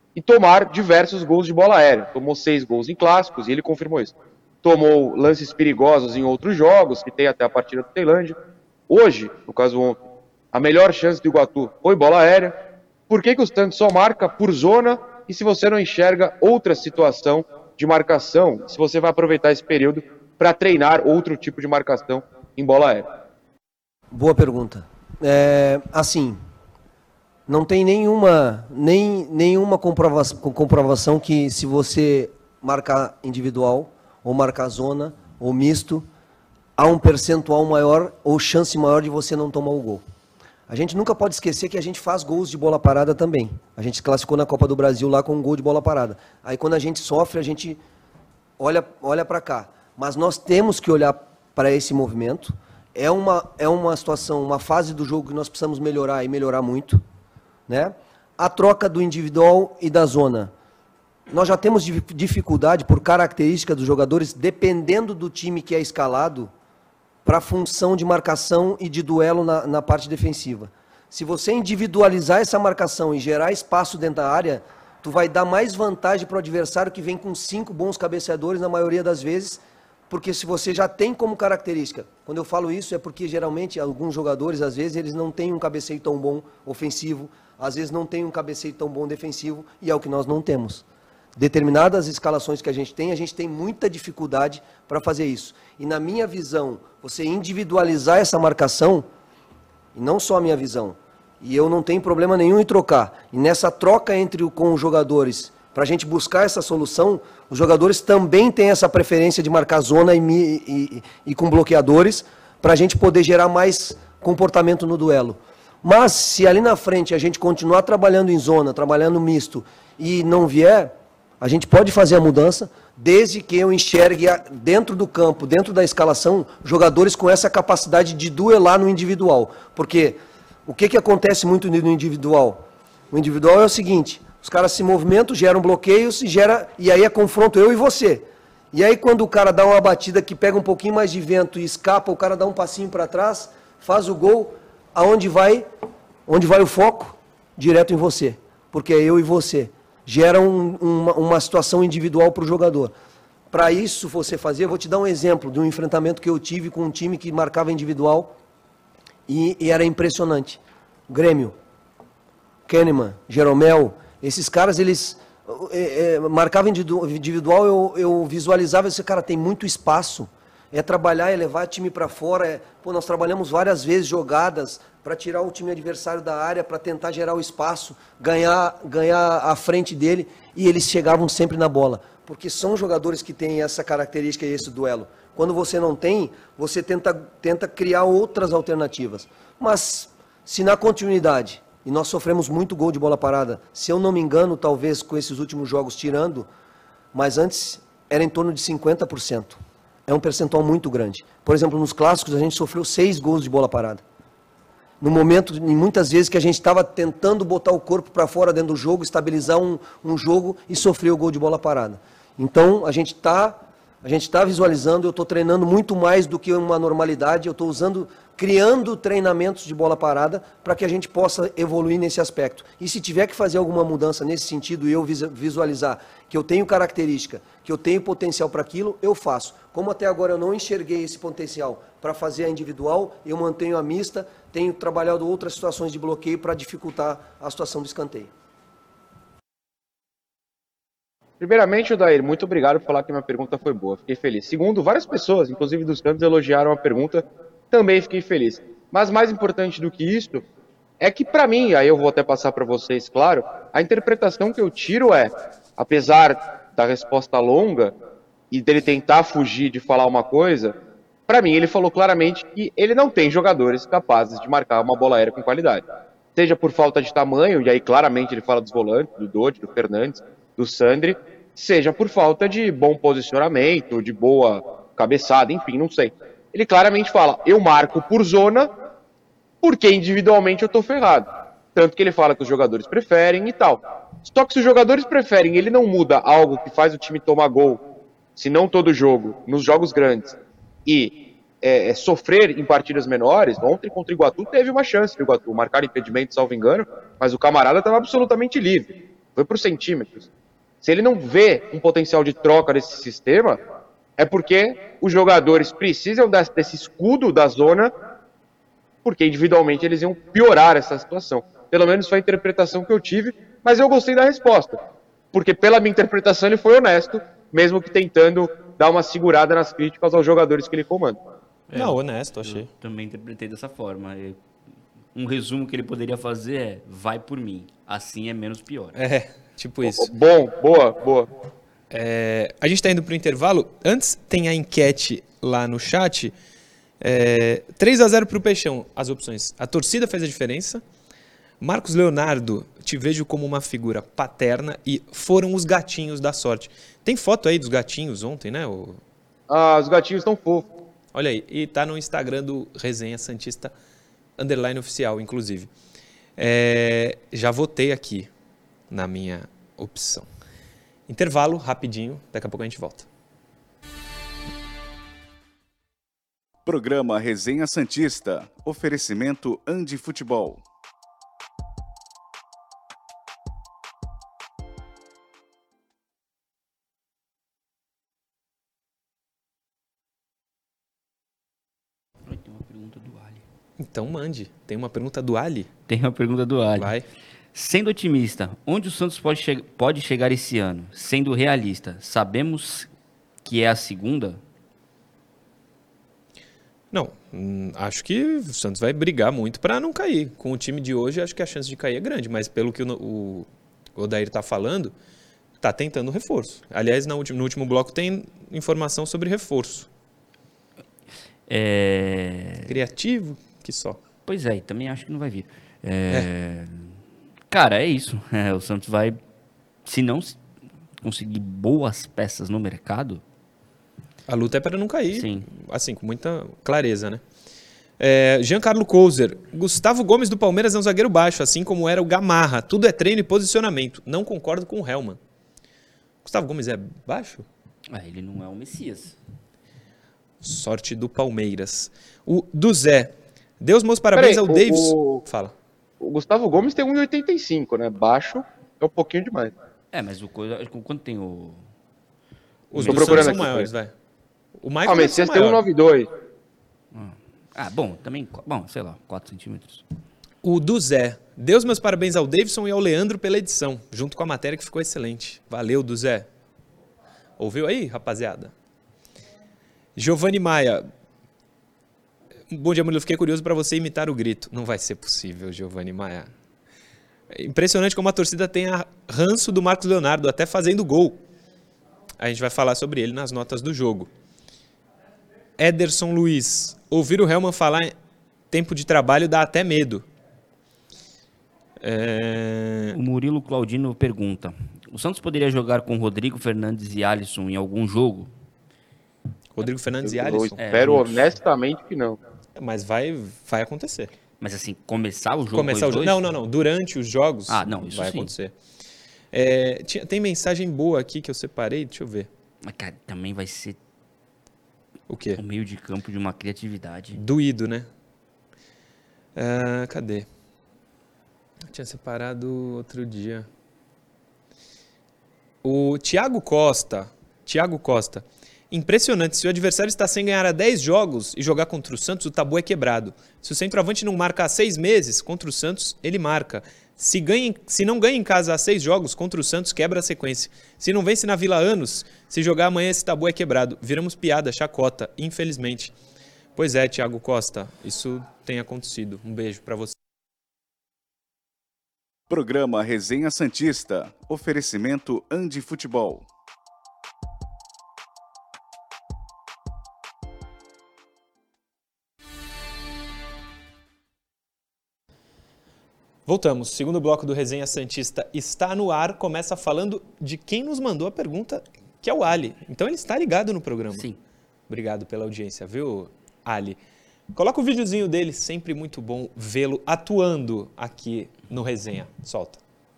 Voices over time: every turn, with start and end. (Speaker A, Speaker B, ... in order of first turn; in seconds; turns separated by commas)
Speaker A: 0.1-8.3, Speaker A: 8.9-10.0, Speaker A: 10.5-12.5, Speaker A: 13.1-23.1, Speaker B: 24.1-26.4, Speaker B: 27.5-36.1, Speaker B: 36.8-40.0, Speaker B: 40.7-47.8, Speaker B: 48.6-57.0, Speaker B: 57.7-60.5, Speaker B: 61.3-66.5, Speaker B: 67.2-90.8, Speaker B: 91.3-99.1, Speaker B: 99.9-145.7, Speaker B: 146.3-152.9, Speaker B: 153.5-158.3, Speaker B: 159.3-161.6, Speaker B: 162.7-196.5, Speaker B: 197.1-204.0, Speaker B: 205.0-238.3, Speaker A: 241.4-250.4, Speaker A: 251.0-257.9, Speaker A: 258.5-260.7, Speaker A: 261.3-265.8, Speaker A: 266.3-278.7, Speaker A: 279.6-287.8, Speaker A: 288.4-300.3, Speaker A: 300.8-303.6, Speaker A: 304.2-307.9, Speaker A: 309.0-314.8, Speaker A: 315.3-321.2, Speaker C: 321.7-324.4, Speaker D: 321.7-322.7, Speaker C: 325.1-328.9, Speaker D: 328.9-330.1, Speaker A: 329.8-331.3, Speaker D: 331.9-336.3, Speaker D: 337.0-340.8, Speaker D: 341.6-349.0, Speaker A: 349.5-350.7, Speaker D: 351.1-353.7, Speaker D: 354.4-355.7, Speaker D: 356.4-358.3, Speaker D: 358.9-360.3, Speaker D: 361.1-363.1, Speaker E: 366.6-370.6, Speaker C: 382.2-383.4, Speaker D: 383.8-385.7, Speaker C: 385.9-386.9, Speaker D: 386.8-387.0, Speaker C: 387.5-392.9, Speaker C: 393.4-394.4, Speaker D: 396.9-404.9, Speaker D: 405.6-409.9, Speaker C: 411.5-412.7, Speaker D: 412.6-414.0, Speaker C: 414.2-416.9, Speaker C: 417.5-419.2, Speaker C: 419.9-420.4, Speaker C: 421.0-423.2, Speaker D: 424.3-427.2, Speaker C: 425.1-425.5, Speaker D: 428.0-435.2, Speaker D: 436.2-437.4, Speaker C: 437.9-439.1, Speaker D: 440.4-445.5, Speaker A: 444.1-445.2, Speaker A: 446.0-449.5, Speaker C: 449.9-451.6, Speaker D: 452.7-453.9, Speaker C: 452.7-453.5, Speaker A: 452.8-453.7, Speaker D: 454.6-455.6, Speaker A: 454.9-456.1, Speaker C: 456.9-459.8, Speaker D: 460.4-466.3, Speaker D: 467.4-468.5, Speaker D: 469.9-470.9, Speaker D: 472.5-476.3, Speaker D: 477.3-481.2, Speaker D: 482.2-484.1, Speaker D: 485.6-487.9, Speaker D: 488.5-490.0, Speaker D: 491.8-492.9, Speaker C: 492.9-498.3, Speaker D: 499.5-500.6, Speaker A: 500.0-502.2, Speaker C: 500.6-501.4, Speaker D: 502.6-504.1, Speaker C: 504.4-506.2, Speaker D: 505.5-508.5, Speaker C: 507.5-508.3, Speaker D: 509.3-512.3, Speaker C: 512.6-513.8, Speaker D: 515.1-515.4, Speaker C: 515.3-517.2, Speaker D: 517.1-517.9, Speaker D: 519.4-520.3, Speaker D: 521.7-523.5, Speaker D: 525.6-545.9, Speaker D: 546.6-549.9, Speaker E: 552.3-556.2, Speaker D: 566.2-574.0, Speaker C: 573.9-574.2, Speaker D: 574.7-576.8, Speaker D: 577.3-582.6